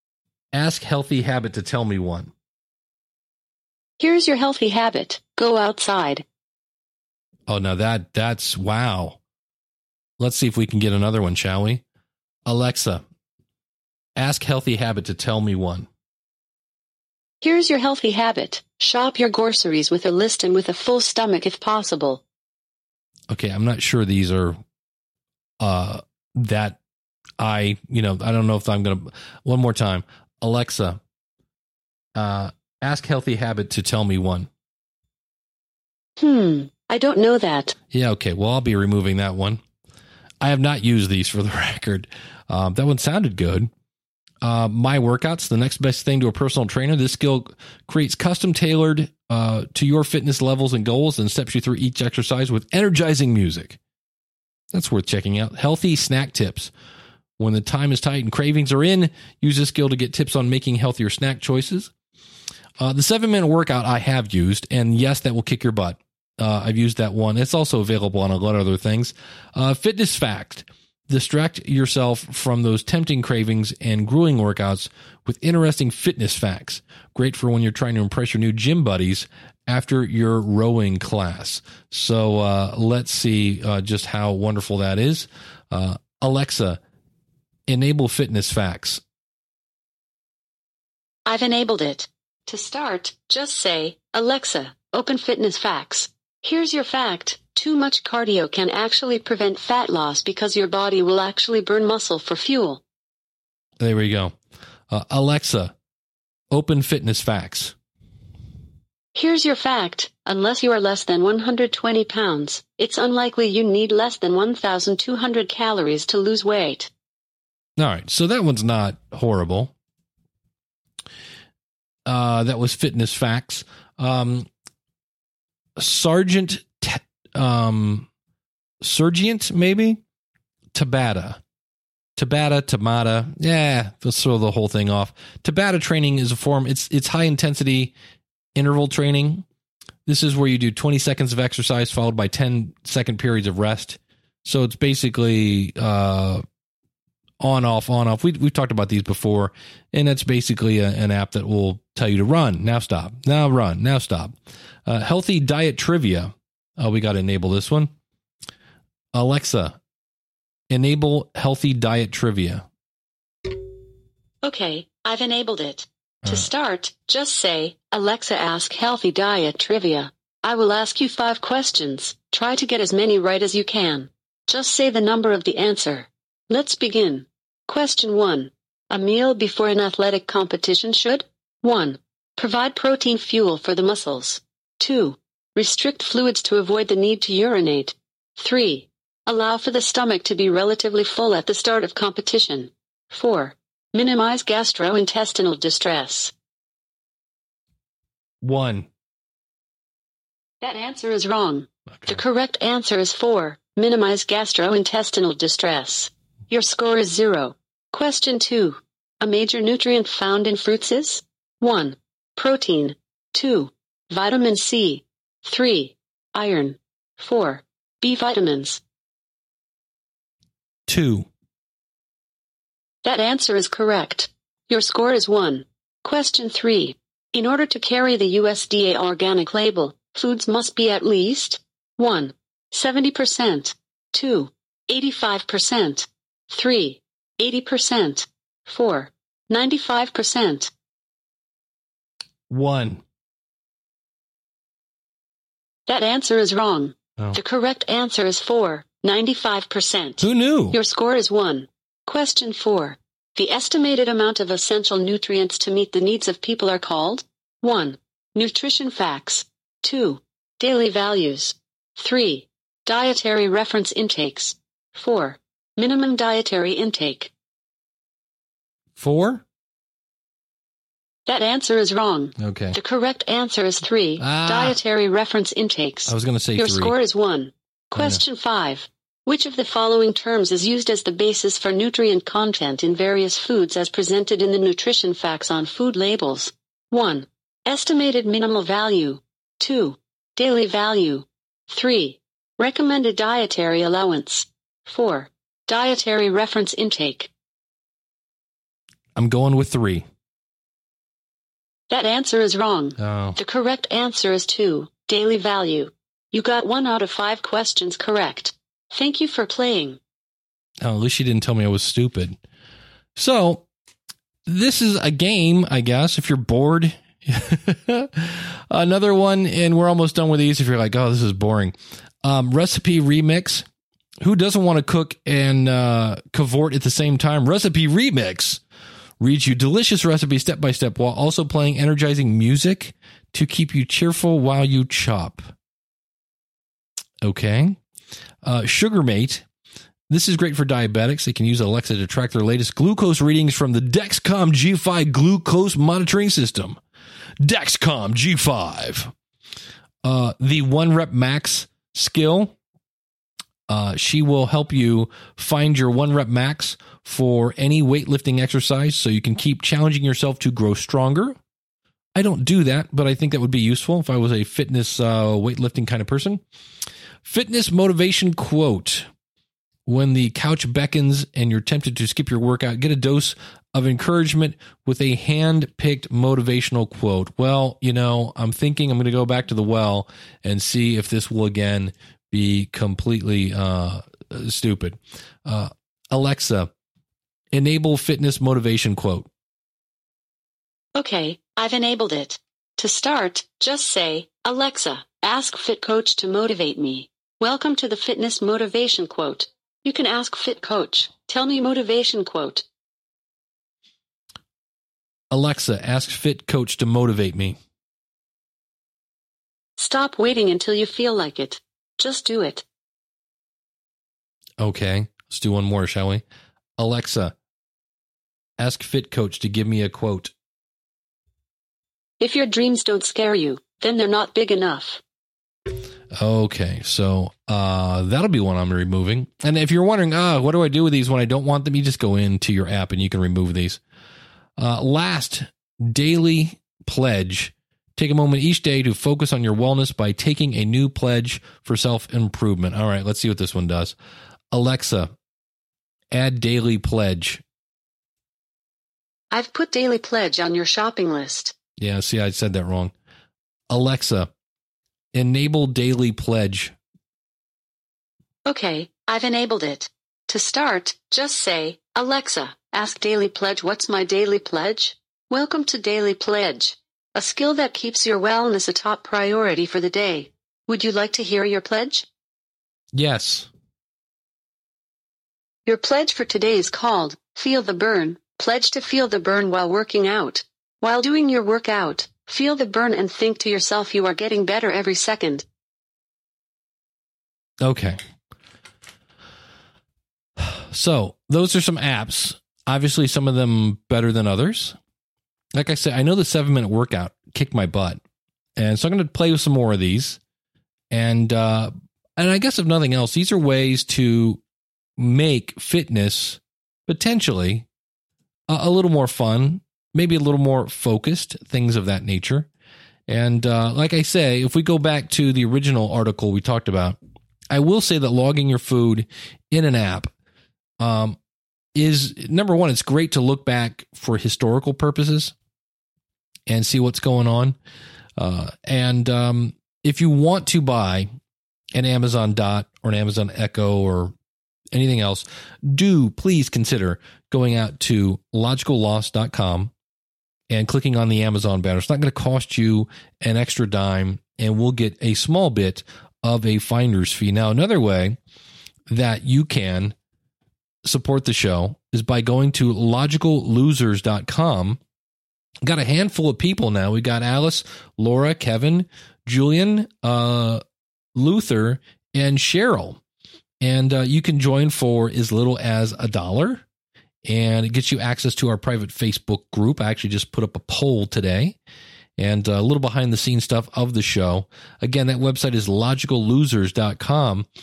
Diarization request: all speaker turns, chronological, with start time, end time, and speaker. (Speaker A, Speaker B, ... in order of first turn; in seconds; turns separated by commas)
Speaker A: 0.5-2.3, Speaker B: 4.0-6.2, Speaker A: 7.5-9.2, Speaker A: 10.2-11.8, Speaker A: 12.5-13.0, Speaker A: 14.2-15.9, Speaker B: 17.4-22.2, Speaker A: 23.3-24.6, Speaker A: 25.6-26.8, Speaker A: 27.4-31.0, Speaker A: 32.2-34.5, Speaker B: 36.2-37.8, Speaker A: 37.9-39.6, Speaker A: 40.4-43.7, Speaker A: 44.4-53.8, Speaker A: 54.7-56.7, Speaker A: 57.4-61.9, Speaker A: 62.8-86.8, Speaker A: 87.7-89.0, Speaker B: 91.3-102.8, Speaker A: 103.8-104.3, Speaker A: 104.9-105.8, Speaker A: 106.5-107.8, Speaker B: 109.1-116.9, Speaker A: 117.8-119.7, Speaker A: 122.1-124.5, Speaker A: 125.8-128.1, Speaker A: 128.8-130.0, Speaker A: 130.7-131.4, Speaker A: 132.2-137.9, Speaker A: 138.6-139.4, Speaker A: 140.1-146.4, Speaker A: 147.4-154.3, Speaker A: 154.9-157.9, Speaker A: 159.1-159.8, Speaker A: 160.7-162.7, Speaker B: 164.4-196.3, Speaker A: 198.4-198.9, Speaker B: 200.6-218.8, Speaker A: 220.9-221.3, Speaker B: 223.0-240.7, Speaker A: 242.5-243.0, Speaker B: 245.9-267.3, Speaker A: 250.2-250.8, Speaker A: 269.0-269.4, Speaker B: 271.3-297.3, Speaker A: 272.4-272.8, Speaker A: 274.2-274.8, Speaker A: 276.1-276.9, Speaker A: 277.9-278.2, Speaker A: 299.2-300.1, Speaker B: 301.9-310.0, Speaker A: 303.0-303.4, Speaker A: 310.8-312.4, Speaker A: 313.2-313.7, Speaker A: 314.5-323.7, Speaker A: 324.2-328.6, Speaker A: 329.2-335.5, Speaker A: 337.2-337.8, Speaker A: 338.4-339.4, Speaker A: 340.1-346.8, Speaker A: 347.4-349.1, Speaker A: 350.0-352.6, Speaker A: 353.7-361.4, Speaker A: 362.1-366.4, Speaker A: 367.2-369.1, Speaker A: 369.9-386.7, Speaker A: 387.5-389.3, Speaker B: 390.9-402.6, Speaker A: 405.3-407.6, Speaker B: 409.8-412.6, Speaker A: 414.6-416.2, Speaker A: 416.8-417.4, Speaker A: 418.6-420.3, Speaker B: 422.2-425.0, Speaker A: 426.1-433.8, Speaker A: 434.6-443.9, Speaker A: 444.5-445.1, Speaker A: 446.1-447.4, Speaker B: 449.3-451.5, Speaker A: 451.8-452.9, Speaker A: 453.7-454.3, Speaker A: 455.1-456.8, Speaker B: 458.4-472.1, Speaker A: 472.9-473.5, Speaker B: 475.7-485.4, Speaker A: 487.6-488.0, Speaker A: 490.4-494.8, Speaker A: 495.6-498.0, Speaker A: 498.6-500.2, Speaker A: 500.9-504.4, Speaker A: 505.0-507.7, Speaker A: 508.5-512.5, Speaker A: 513.1-517.0, Speaker A: 517.5-520.1, Speaker A: 520.8-521.2, Speaker A: 521.8-525.3, Speaker A: 526.5-527.6, Speaker A: 528.2-531.1, Speaker A: 531.8-534.1, Speaker A: 534.7-539.7, Speaker A: 540.5-548.2, Speaker A: 548.9-549.9, Speaker A: 550.9-554.8, Speaker A: 555.6-560.6, Speaker A: 561.1-563.0, Speaker A: 563.6-566.6, Speaker A: 567.2-571.6, Speaker A: 572.2-577.5